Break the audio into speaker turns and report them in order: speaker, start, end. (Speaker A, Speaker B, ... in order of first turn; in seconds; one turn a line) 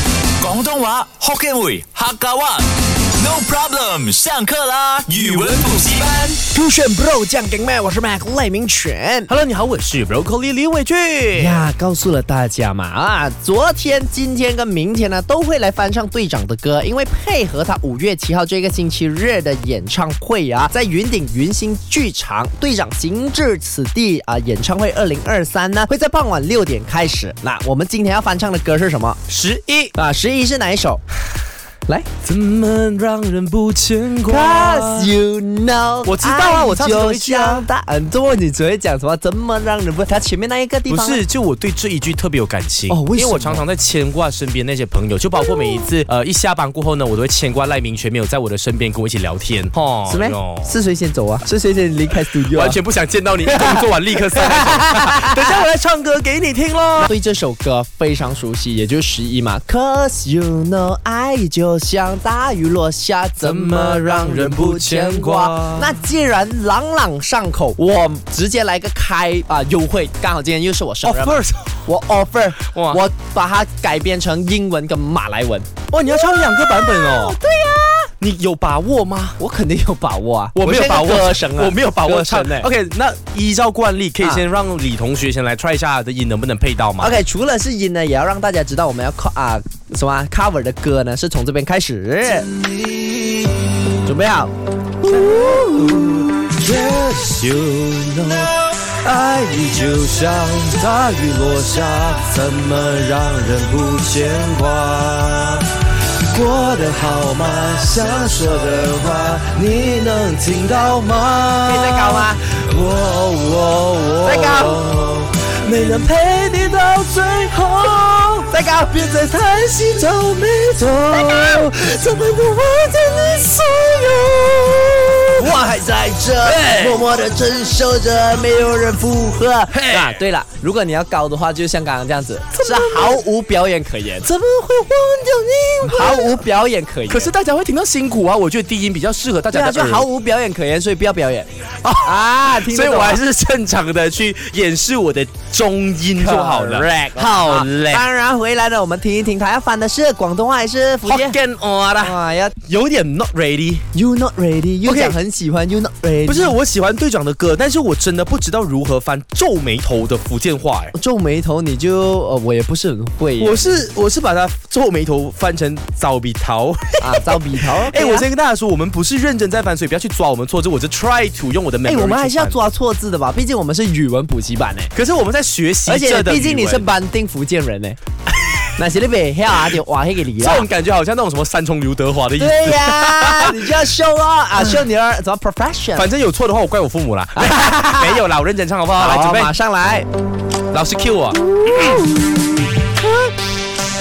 Speaker A: 0.4-6.4
Speaker B: 6.4-9.3
Speaker C: 9.3-11.7
Speaker B: 11.3-29.2
Speaker C: 29.3-29.9
Speaker B: 29.9-31.0
Speaker C: 32.2-35.1
Speaker B: 34.3-41.2
Speaker C: 36.0-37.7
Speaker C: 40.9-50.8
Speaker B: 42.9-43.6
Speaker B: 50.1-52.8
Speaker C: 52.5-57.1
Speaker B: 53.5-55.5
Speaker B: 57.0-78.1
Speaker C: 63.4-66.0
Speaker C: 71.0-71.8
Speaker C: 72.7-73.0
Speaker C: 75.9-77.4
Speaker C: 78.2-79.4
Speaker B: 79.4-82.7
Speaker C: 80.5-87.2
Speaker B: 87.0-92.5
Speaker B: 94.0-94.5
Speaker C: 95.0-105.8
Speaker B: 95.0-96.2
Speaker C: 106.3-118.5
Speaker B: 111.6-112.4
Speaker B: 114.2-114.8
Speaker B: 118.5-119.6
Speaker C: 119.2-122.6
Speaker B: 121.0-122.5
Speaker C: 124.0-125.7
Speaker B: 125.4-134.3
Speaker C: 126.4-127.1
Speaker C: 129.7-130.2
Speaker C: 132.6-133.2
Speaker C: 134.3-136.4
Speaker B: 135.8-137.3
Speaker C: 137.1-140.1
Speaker B: 139.5-141.5
Speaker C: 141.8-148.0
Speaker B: 142.0-143.2
Speaker B: 146.2-151.4
Speaker C: 151.1-153.9
Speaker B: 152.0-152.5
Speaker B: 153.9-156.6
Speaker C: 154.8-155.2
Speaker C: 156.3-160.9
Speaker B: 160.9-163.8
Speaker C: 163.4-172.6
Speaker B: 167.0-168.3
Speaker B: 171.8-174.9
Speaker C: 174.9-176.9
Speaker B: 175.9-178.0
Speaker B: 178.8-180.7
Speaker C: 180.4-183.8
Speaker B: 182.4-186.1
Speaker C: 186.0-189.5
Speaker B: 187.4-188.2
Speaker B: 189.0-190.1
Speaker C: 190.7-192.0
Speaker B: 191.3-193.3